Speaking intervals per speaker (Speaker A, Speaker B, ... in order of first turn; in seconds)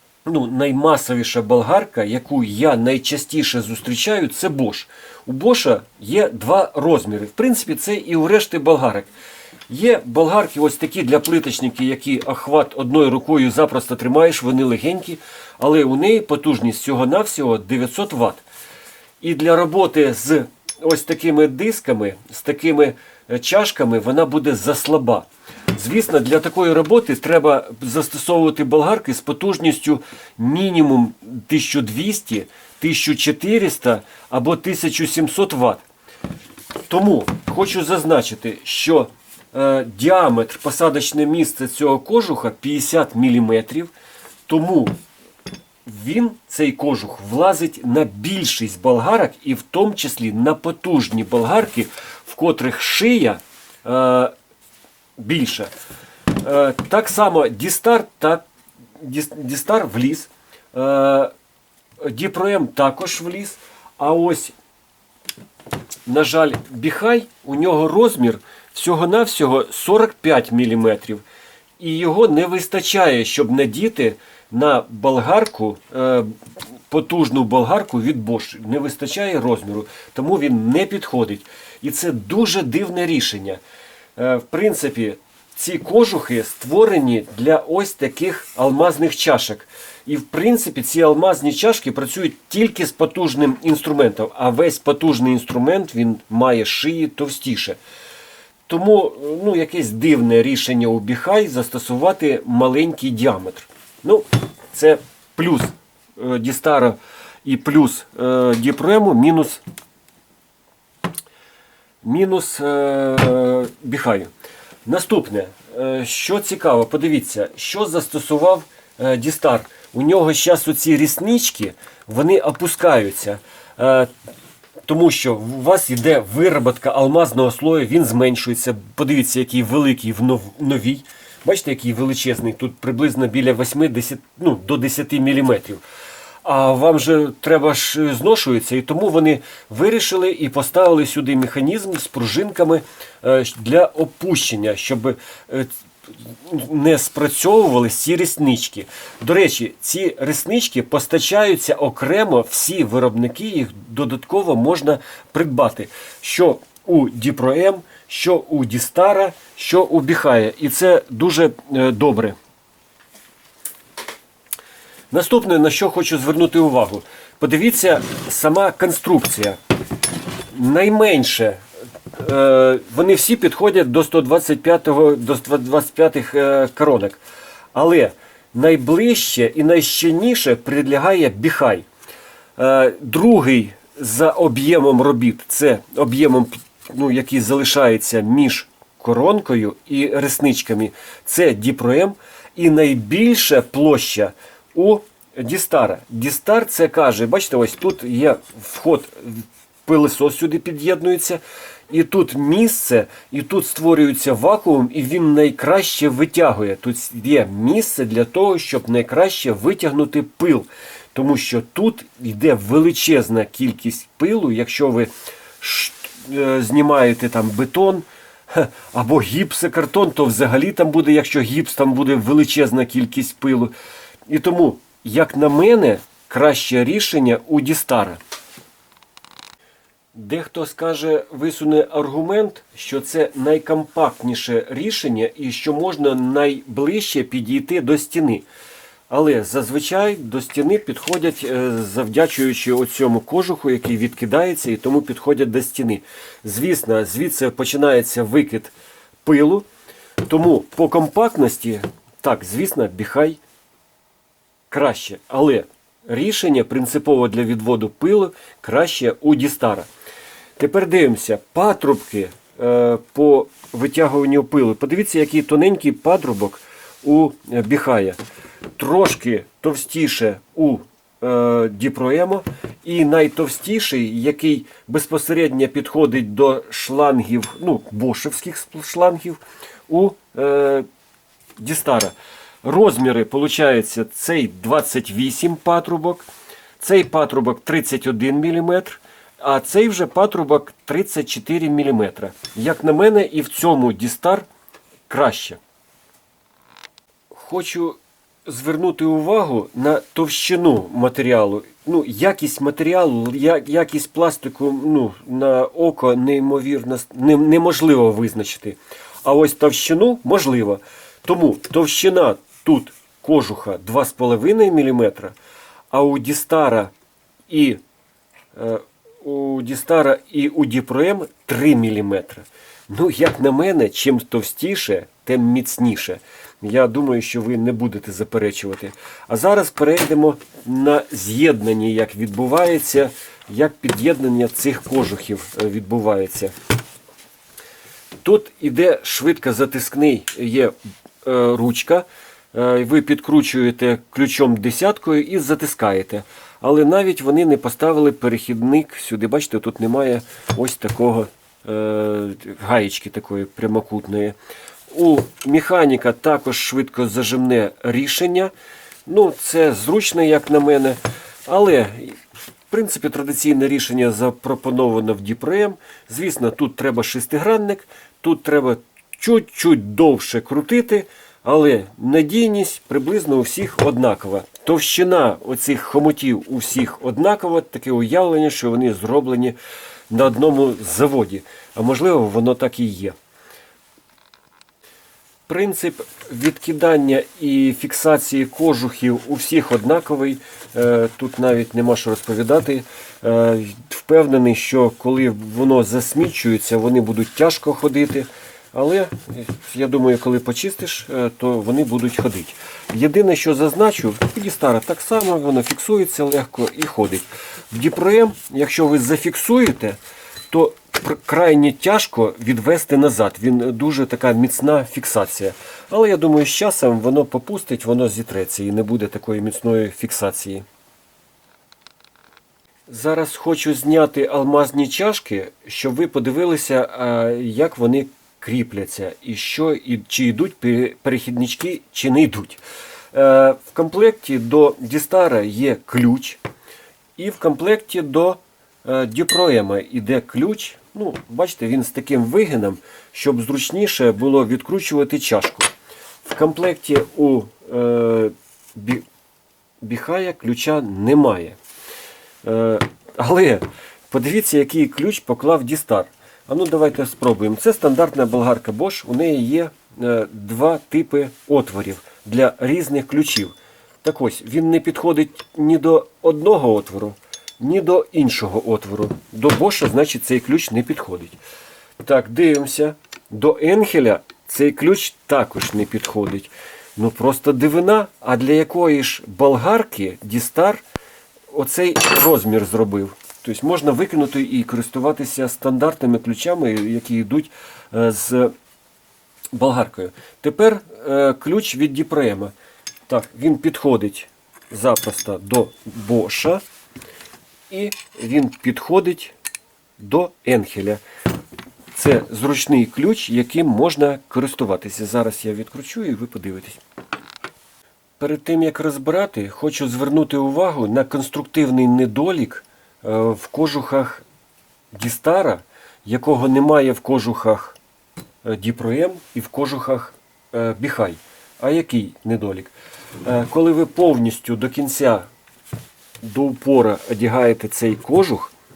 Speaker A: 0.2-9.1, 9.7-18.4, 19.2-35.8, 36.9-43.9, 44.5-45.0, 45.9-54.3, 55.2-55.7, 56.3-58.5, 59.0-61.3, 62.0-64.5, 66.0-71.2, 71.8-83.6, 84.2-97.8, 98.7-109.6, 112.0-114.3, 114.8-124.1, 124.8-135.8, 136.4-162.4, 165.1-169.6, 170.5-171.6, 172.1-177.2, 177.7-181.8, 182.6-223.7, 224.3-228.2, 230.1-238.4, 239.1-248.7, 249.2-249.7, 250.2-253.4, 254.7-259.9, 260.6-268.2, 268.8-280.9, 281.6-286.3, 286.8-294.5, 295.1-295.6, 297.3-315.4, 315.9-316.9, 317.5-317.8, 318.5-336.5, 338.2-354.4, 354.9-358.5, 359.1-362.2, 362.7-379.6, 380.1-383.1, 385.5-410.0, 410.5-420.6, 422.9-432.6, 433.1-436.4, 437.2-445.7, 446.2-449.0, 449.8-451.6, 452.4-471.4, 472.0-480.8, 481.5-488.5, 489.5-492.5, 493.1-496.6, 497.7-499.3, 500.0-501.0, 501.9-506.8, 508.2-514.2, 514.9-517.8, 518.4-525.3, 526.2-528.5